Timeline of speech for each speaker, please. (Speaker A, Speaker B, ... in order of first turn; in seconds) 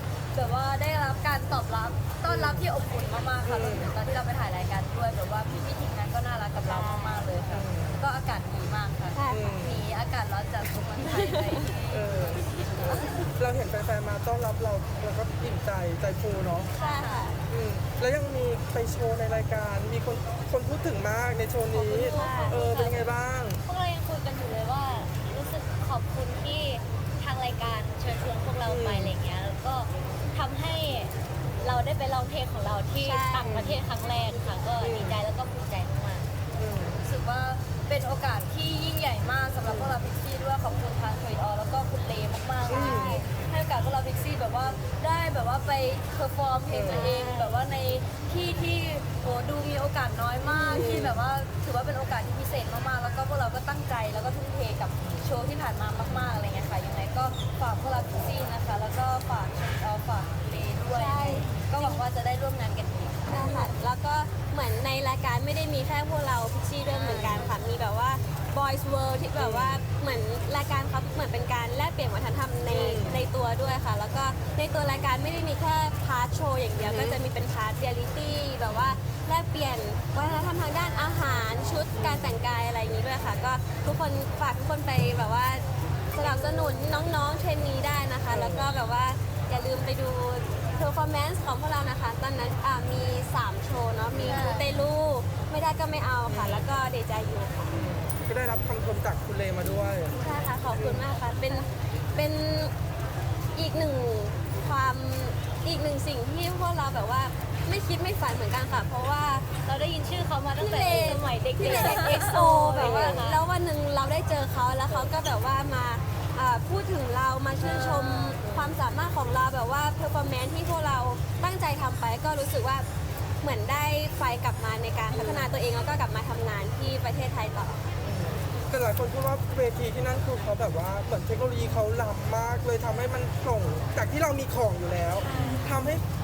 Speaker A: 0.3-13.2, 37.0-63.5, 66.9-67.5, 86.2-87.0, 94.3-94.7, 111.6-112.5, 117.6-118.4
Speaker B: 2.3-2.7, 3.4-3.9, 7.5-8.0, 9.3-9.8, 11.9-16.7, 17.5-23.6, 28.6-29.2, 33.5-33.8, 34.8-35.2, 36.6-37.0, 39.6-40.0, 42.7-43.2, 46.7-47.1, 50.6-51.2, 56.0-56.4, 63.3-63.7, 67.0-67.5, 69.4-69.8, 72.7-73.2, 76.8-77.2, 78.7-79.0, 82.0-82.4, 88.3-88.7, 94.1-94.5, 96.3-96.7, 97.7-100.2, 100.8-101.1, 112.8-113.2, 118.4-118.8, 125.1-125.5, 128.0-136.1
Speaker C: 6.6-7.3, 16.7-17.3, 21.7-23.1, 23.6-36.3, 109.7-113.4, 135.2-135.7
Speaker D: 9.1-9.5, 11.1-11.6, 16.8-17.4, 22.1-22.6, 33.0-33.5, 42.7-43.3, 46.9-47.6, 50.5-50.9, 60.9-62.0, 63.3-97.8, 100.1-102.7, 103.5-109.5, 110.6-122.9, 123.4-127.8, 135.3-135.6